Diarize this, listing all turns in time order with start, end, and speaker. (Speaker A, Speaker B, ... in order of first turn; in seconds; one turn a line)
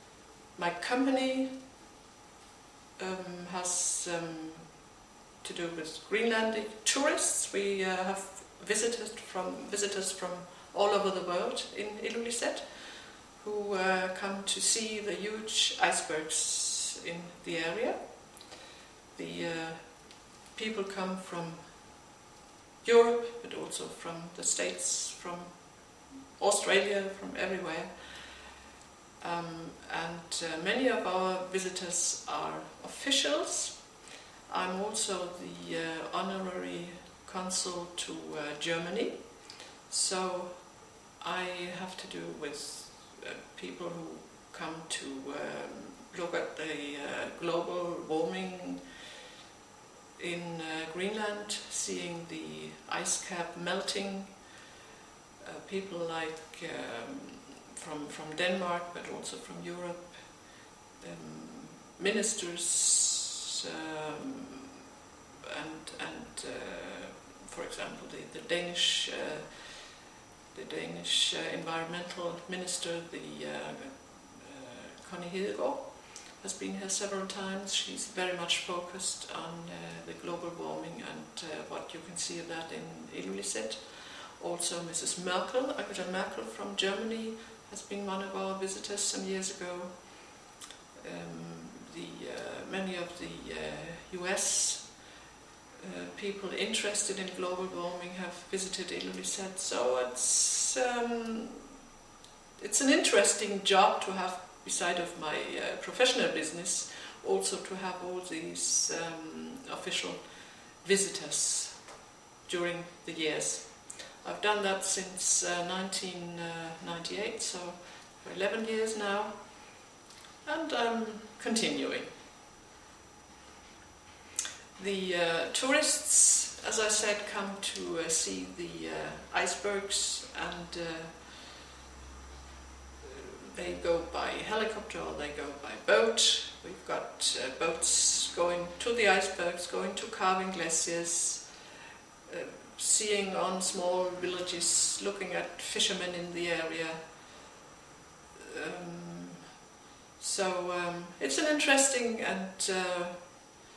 Speaker A: 0.5-1.6
Speaker A: 3.0-18.5
Speaker A: 19.1-22.2
Speaker A: 22.8-28.6
Speaker A: 29.2-33.9
Speaker A: 34.5-49.0
Speaker A: 50.1-54.5
Speaker A: 55.4-64.7
Speaker A: 65.4-90.4
Speaker A: 90.9-95.2
Speaker A: 95.8-101.7
Speaker A: 102.6-111.9
Speaker A: 112.4-119.9
Speaker A: 120.4-122.1
Speaker A: 124.8-131.4
Speaker A: 133.0-141.7
Speaker A: 142.2-147.5
Speaker A: 148.4-149.5
Speaker A: 150.2-153.3